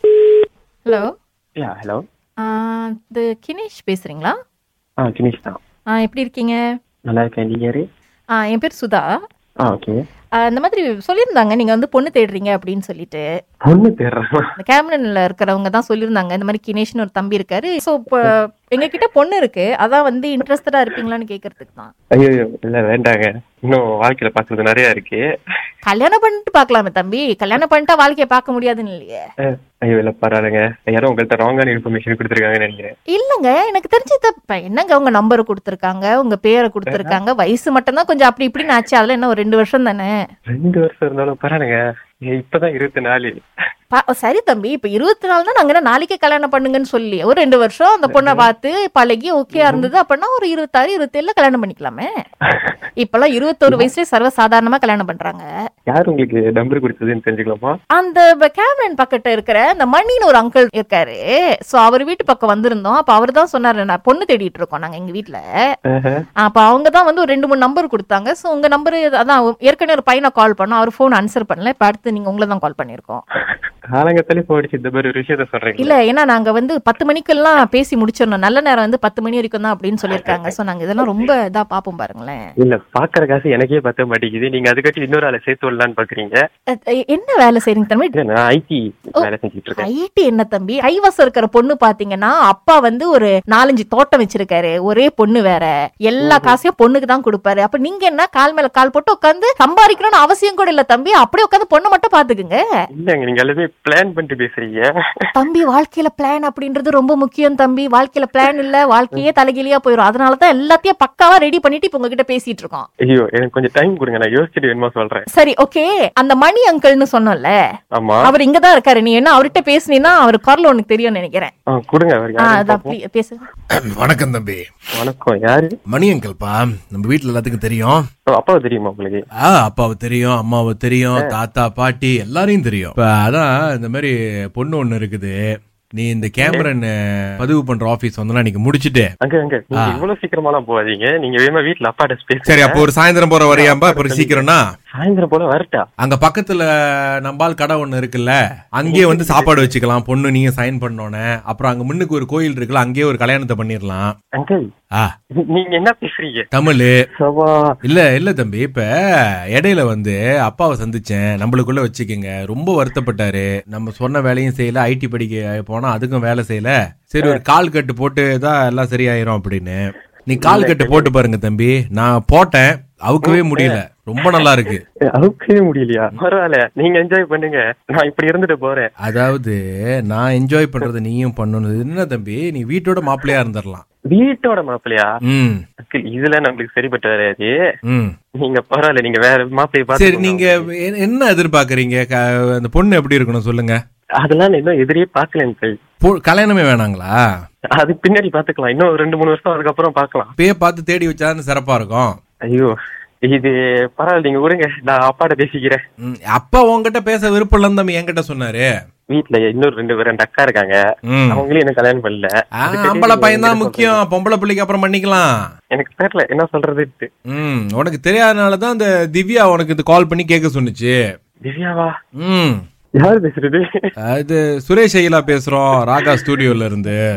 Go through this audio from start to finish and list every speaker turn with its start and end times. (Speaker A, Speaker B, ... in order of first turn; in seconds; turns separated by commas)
Speaker A: 1.6-2.0, Speaker B: 2.4-4.4, Speaker A: 5.0-5.6, Speaker B: 5.9-6.6, Speaker A: 7.1-7.9, Speaker B: 8.4-9.1, Speaker A: 9.6-10.0, Speaker B: 10.4-13.2, Speaker A: 13.7-14.3, Speaker B: 14.6-21.9, Speaker A: 22.1-25.2, Speaker B: 25.9-29.2, Speaker A: 29.5-32.9, Speaker B: 33.1-40.1, Speaker A: 36.9-37.2, Speaker A: 40.5-41.8, Speaker A: 42.3-43.3, Speaker B: 43.9-52.1, Speaker A: 48.1-48.5, Speaker A: 49.5-49.9, Speaker B: 53.0-55.5, Speaker A: 55.9-57.8, Speaker B: 58.0-61.2, Speaker B: 61.7-65.4, Speaker A: 65.9-66.2, Speaker B: 66.4-73.2, Speaker A: 73.9-76.0, Speaker B: 75.8-82.4, Speaker A: 80.1-80.5, Speaker A: 82.6-86.4, Speaker B: 86.7-88.2, Speaker A: 88.2-89.9, Speaker B: 89.8-102.6, Speaker A: 96.2-96.6, Speaker A: 103.0-104.9, Speaker B: 105.4-112.9, Speaker A: 113.1-115.3, Speaker B: 115.3-117.5, Speaker A: 118.0-118.3, Speaker B: 118.2-121.5, Speaker A: 121.7-123.0, Speaker B: 122.4-123.5, Speaker C: 123.8-124.6, Speaker A: 125.0-125.8, Speaker C: 125.9-128.0, Speaker A: 128.3-129.2, Speaker C: 129.4-135.3, Speaker C: 136.0-139.1, Speaker A: 136.4-136.7, Speaker A: 139.2-142.8, Speaker C: 139.8-140.0, Speaker C: 142.5-144.6, Speaker A: 143.5-145.9, Speaker C: 146.0-146.7, Speaker C: 147.2-154.2, Speaker A: 148.9-149.7, Speaker A: 154.4-154.7, Speaker A: 155.5-156.5, Speaker C: 156.5-157.0, Speaker A: 157.2-157.7, Speaker C: 157.8-158.9, Speaker C: 159.6-174.8, Speaker A: 170.4-171.1, Speaker A: 173.3-173.8, Speaker A: 175.1-178.9, Speaker C: 179.0-179.6, Speaker C: 180.1-183.8, Speaker A: 184.1-185.1, Speaker C: 185.3-185.6, Speaker A: 185.9-187.5, Speaker C: 187.9-188.1, Speaker A: 188.4-190.7, Speaker C: 190.0-193.8, Speaker A: 194.2-195.8, Speaker C: 196.0-197.1, Speaker A: 197.8-200.3, Speaker C: 200.4-202.2, Speaker A: 203.3-205.8, Speaker C: 206.0-208.7, Speaker A: 209.1-210.8, Speaker C: 211.1-211.4, Speaker A: 211.3-214.0, Speaker C: 212.6-215.3, Speaker A: 215.7-217.1, Speaker C: 217.3-221.0, Speaker A: 221.4-221.9, Speaker C: 222.2-222.6, Speaker A: 223.0-223.7, Speaker C: 224.1-227.0